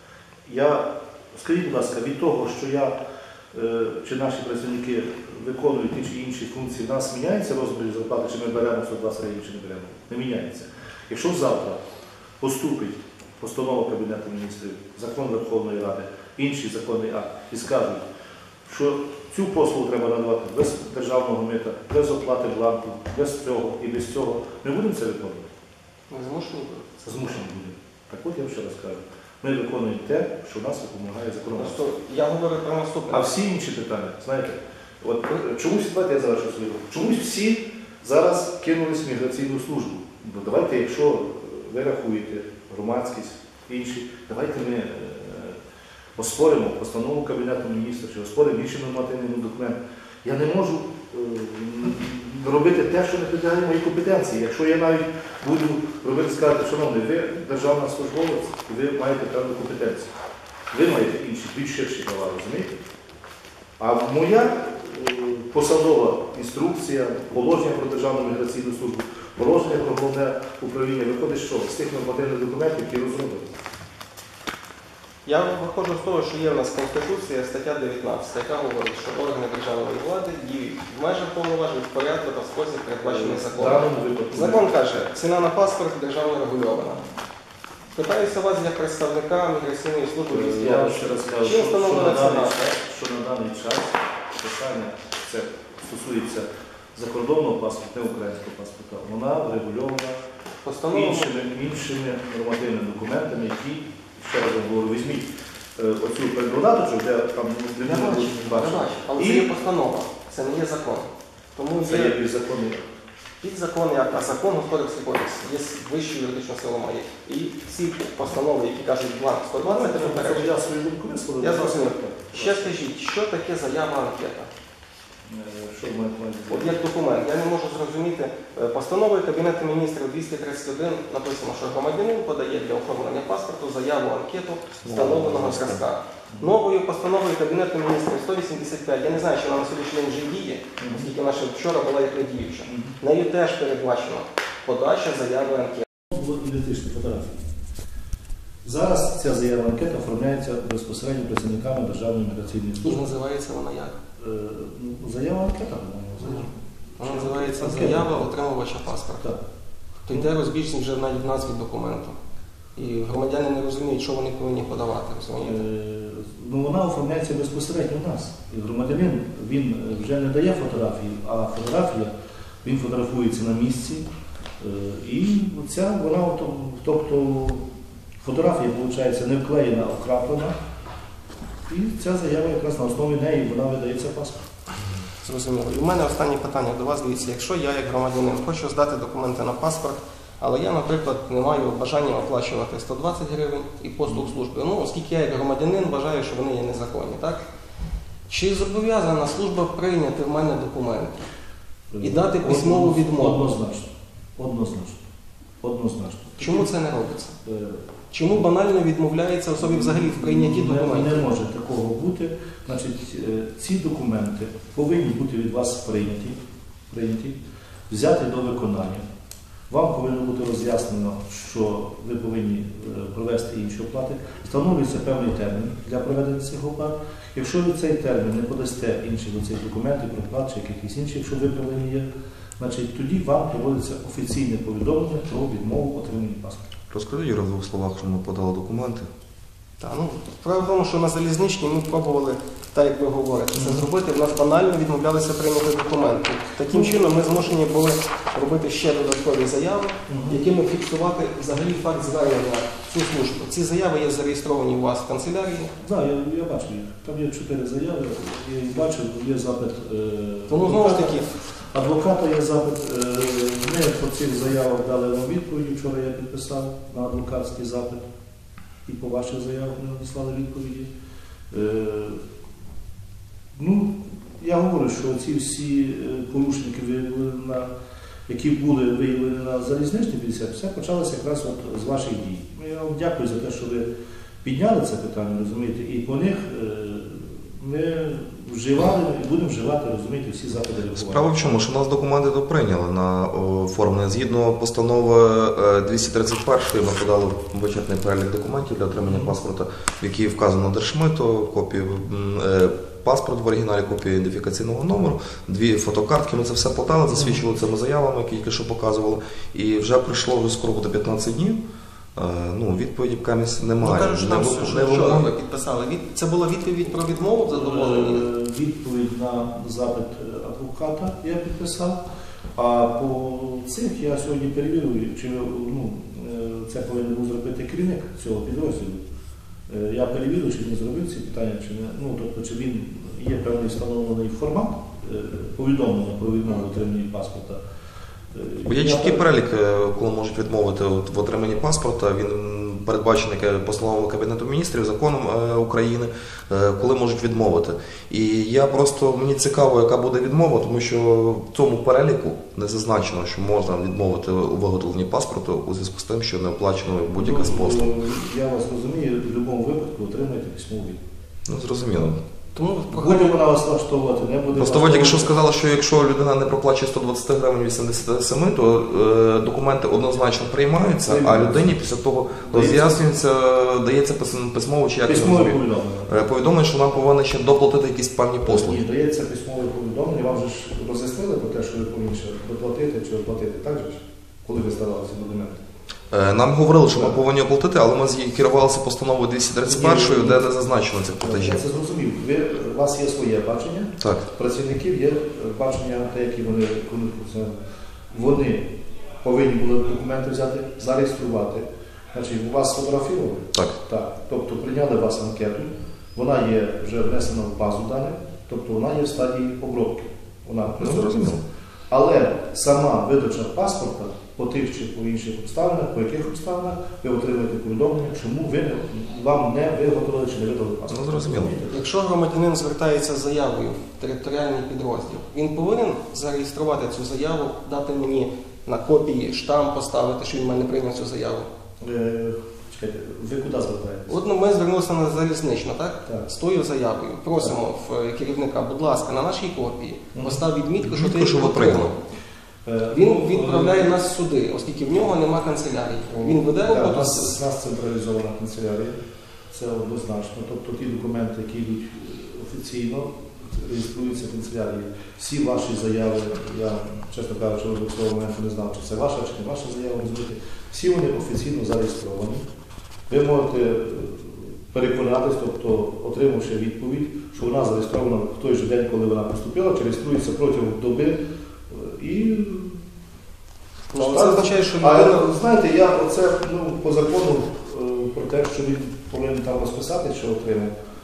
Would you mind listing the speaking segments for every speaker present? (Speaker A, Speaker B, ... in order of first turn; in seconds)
Speaker A: 0.5-3.0, 3.5-11.8, 12.4-18.1, 18.7-25.5, 27.1-31.8, 33.1-45.6, 46.2-60.1, 60.7-62.7, 63.8-73.5, 83.1-84.7, 90.3-100.2, 100.9-109.5, 111.8-112.9, 119.6-122.8, 125.2-126.8, 134.8-136.6, 140.8-141.1, 142.7-143.0, 146.1-147.4, 148.6-153.1, 154.2-158.3, 165.4-172.1, 172.6-174.1, 174.6-177.7, 178.2-180.6, 181.7-184.5, 201.9-205.1, 205.6-206.7, 207.4-207.9, 209.6-219.1, 219.7-236.7, 243.5-243.9, 246.7-247.5, 250.1-250.4, 255.8-261.2, 261.7-268.1, 268.9-270.9, 271.5-272.2, 273.6-277.7, 278.3-283.9, 284.4-291.6, 317.5-322.0, 322.6-329.0, 329.7-337.6, 338.3-339.3, 357.1-361.0, 362.9-365.4, 371.0-371.9, 372.4-373.2, 375.1-376.2, 378.4-385.6, 386.9-387.2, 389.6-390.5, 391.2-397.6, 398.1-411.4, 411.9-421.8, 431.8-434.2, 440.1-440.4, 442.6-443.9, 446.1-449.0, 449.5-462.4, 463.1-472.8, 474.0-480.7
Speaker B: 26.1-27.1, 31.6-33.3, 75.3-87.0, 87.9-92.6, 100.6-101.3, 107.8-112.2, 113.4-120.5, 121.4-124.5, 126.5-145.9, 152.8-154.0, 156.2-159.3, 160.1-162.2, 162.8-165.6, 185.2-197.4, 198.3-201.2, 202.0-203.6, 206.4-207.4, 208.1-211.3, 239.8-255.7, 260.5-261.3, 313.8-318.3, 362.6-363.4, 421.7-431.5, 434.1-442.0, 442.9-447.4, 473.9-475.3
Speaker C: 236.9-239.1, 290.9-311.6, 312.2-315.3, 338.7-357.9, 361.5-362.2, 364.5-375.6, 376.1-378.8, 386.1-391.6, 394.0-394.3, 410.8-411.4, 420.9-421.6, 440.8-441.9